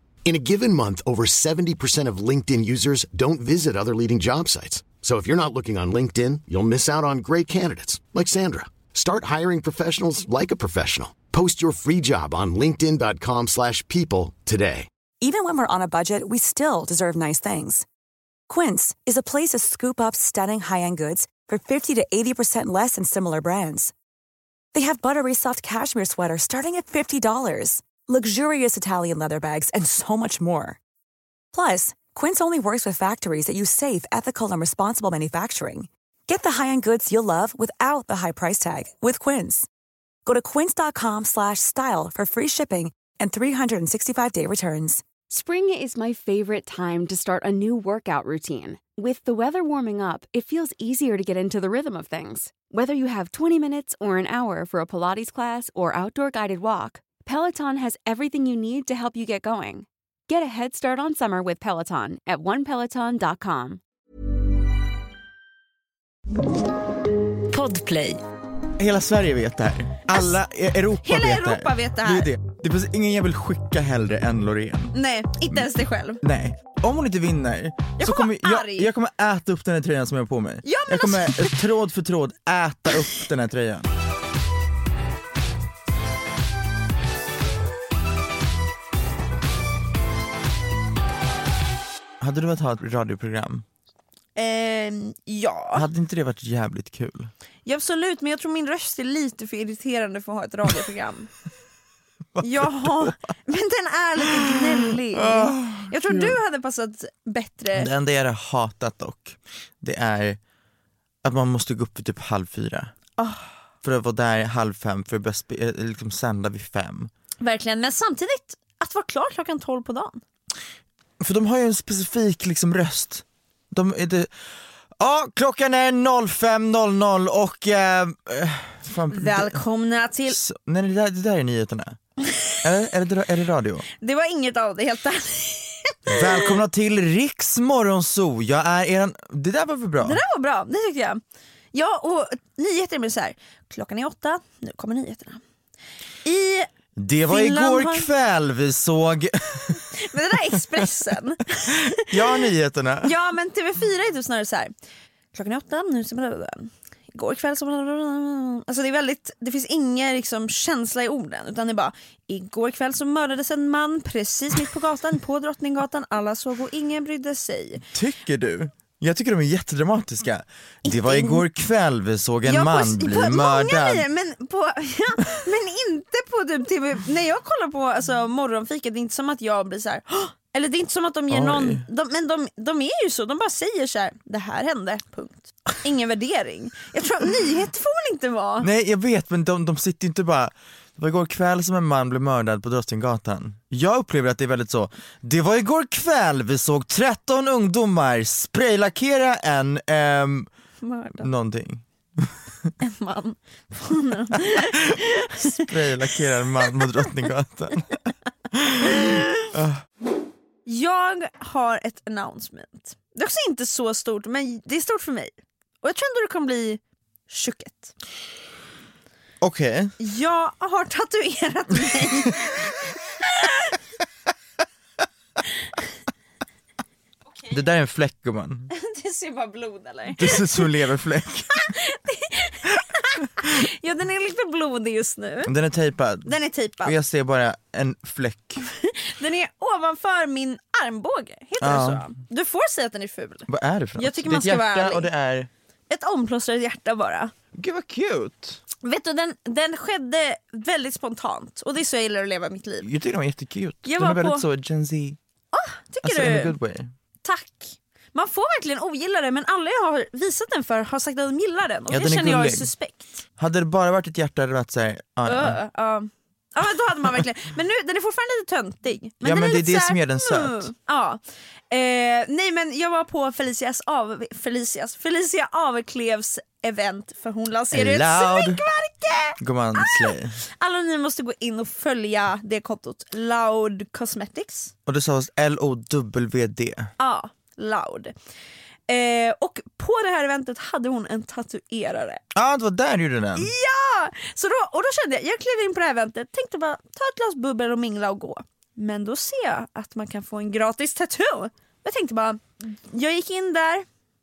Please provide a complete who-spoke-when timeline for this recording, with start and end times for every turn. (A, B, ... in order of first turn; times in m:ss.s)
0:00.2-0:14.9 A
0:15.2-0:17.8 B
0:18.5-0:23.9 B
0:24.7-0:30.8 B
0:31.5-0:39.7 B
0:40.2-0:45.0 B
0:45.3-1:03.8 C
1:07.5-1:08.0 D
1:08.8-1:14.9 E
1:10.1-1:10.4 D
1:11.0-1:12.3 D
1:14.9-1:16.2 D
1:16.2-1:23.9 E
1:18.0-1:18.9 D
1:20.6-1:21.6 D
1:32.2-1:33.6 E
1:34.4-1:35.9 D
1:35.7-1:37.3 E
1:37.6-1:41.3 D
1:42.3-1:43.2 E
1:42.4-1:47.9 D
1:44.2-1:46.4 E
1:47.7-1:50.4 E
1:51.2-1:52.9 E
1:53.2-1:53.5 D
1:53.8-1:57.1 E
1:57.4-2:00.2 D
2:01.2-2:04.3 E
2:05.0-2:09.6 E
2:09.1-2:10.4 D
2:10.3-2:12.0 E
2:12.6-2:13.8 E
2:13.9-2:16.6 D
2:16.1-2:20.2 E
2:20.0-2:21.2 D
2:21.7-2:25.4 D
2:26.2-2:26.7 D
2:27.0-2:29.9 E
2:27.3-2:28.1 D
2:29.9-2:32.4 D
2:32.0-2:33.1 E
2:33.0-2:34.7 D
2:35.3-2:47.8 D
2:47.9-2:54.0 E
2:50.8-2:51.4 D
2:52.4-3:08.7 D
3:01.3-3:01.8 E
3:08.6-3:20.5 E
3:20.8-3:21.3 D
3:21.2-3:22.7 E
3:22.8-3:25.7 D
3:25.4-3:28.0 E
3:28.5-3:29.8 E
3:28.8-3:29.5 D
3:30.6-3:37.9 D
3:39.4-3:39.9 E
3:40.0-3:42.6 D
3:41.9-3:42.1 E
3:43.2-3:43.7 D
3:47.5-3:48.7 E
3:48.7-3:50.7 D
3:50.2-3:51.6 E
3:51.6-3:55.5 D
3:55.4-3:58.6 E
3:56.2-3:56.9 D
3:58.6-4:03.5 D
4:01.6-4:02.0 E
4:03.5-4:05.5 E
4:04.0-4:05.1 D
4:05.9-4:07.3 D
4:07.5-4:08.6 E
4:08.8-4:12.9 D
4:12.8-4:15.2 E
4:13.8-4:14.4 D
4:15.5-4:16.5 D
4:16.0-4:16.9 E
4:17.2-4:23.1 D
4:21.9-4:22.7 E
4:23.4-4:25.6 E
4:25.2-4:44.7 D
4:29.2-4:30.7 E
4:37.7-4:38.6 E
4:39.4-4:40.4 E
4:44.8-4:46.9 E
4:47.0-4:48.1 D
4:48.9-4:52.2 D
4:52.3-4:53.5 E
4:53.3-5:03.8 D